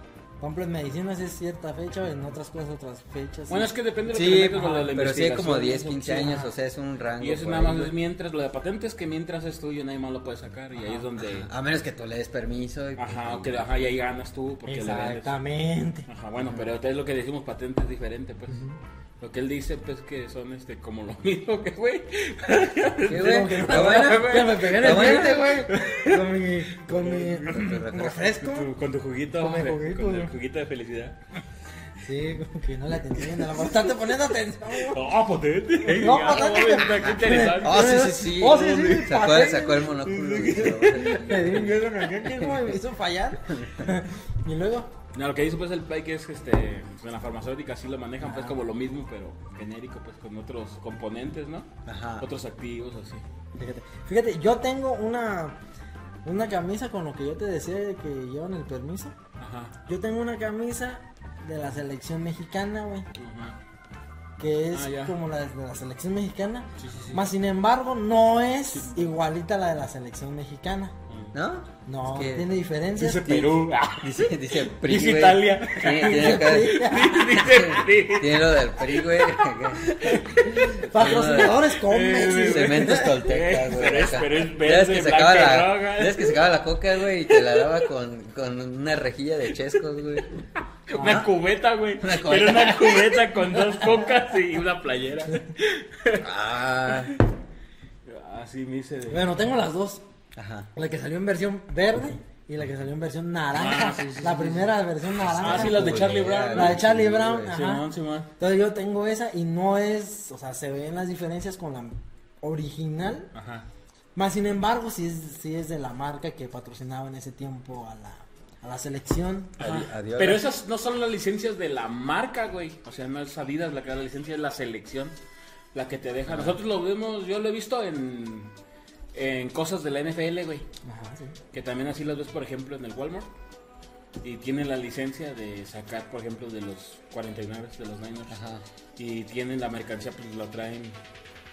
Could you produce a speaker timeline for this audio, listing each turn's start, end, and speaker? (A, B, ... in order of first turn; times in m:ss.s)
0:00.4-0:03.7 A
0:03.5-0:06.3 B
0:04.1-0:07.9 C
0:04.6-0:04.9 A
0:06.0-0:06.5 A
0:07.2-0:11.5 B
0:10.8-0:13.6 C
0:13.0-0:15.3 B
0:14.7-0:16.1 A
0:16.1-0:18.6 B
0:16.4-0:16.7 C
0:18.5-0:18.8 A
0:19.2-0:26.3 B
0:23.1-0:25.6 C
0:23.1-0:28.7 A
0:26.9-0:27.6 B
0:27.4-0:28.3 C
0:28.4-0:31.2 B
0:29.3-0:30.3 A
0:32.0-0:35.0 A
0:33.4-0:33.8 B
0:34.7-0:38.0 B
0:35.9-0:44.9 A
0:37.0-0:42.8 C
0:40.0-0:41.6 B
0:43.5-0:43.9 C
0:45.1-0:53.2 B
0:48.2-0:48.6 A
0:51.9-0:52.3 C
0:53.6-0:55.6 A
0:56.2-0:59.2 A
0:59.4-0:59.8 B
0:59.9-1:03.2 A
1:03.2-1:03.6 B
1:04.4-1:10.9 A
1:04.7-1:05.2 B
1:06.8-1:07.3 B
1:08.7-1:09.1 B
1:11.1-1:11.3 B
1:11.3-1:12.5 C
1:11.9-1:13.6 A
1:13.0-1:19.5 B
1:14.0-1:30.3 C
1:15.9-1:17.6 A
1:20.2-1:23.2 A
1:21.2-1:26.5 B
1:27.1-1:27.9 B
1:30.9-1:36.3 B
1:30.9-1:31.3 C
1:32.0-1:33.2 C
1:36.2-1:37.1 C
1:36.9-1:37.2 B
1:38.0-1:39.4 B
1:39.1-1:40.0 A
1:40.3-1:40.7 C
1:40.7-1:47.9 A
1:43.5-1:46.9 B
1:45.3-1:47.6 C
1:47.4-1:48.3 B
1:48.4-1:53.3 A
1:53.3-1:53.7 B
1:54.2-1:59.6 A
1:59.6-2:00.4 C
1:59.6-2:05.2 B
2:05.7-2:08.5 B
2:06.3-2:06.6 C
2:09.1-2:10.7 B
2:10.8-2:11.4 A
2:11.5-2:13.3 B
2:14.2-2:18.4 B
2:18.3-2:18.6 C
2:19.0-2:21.0 B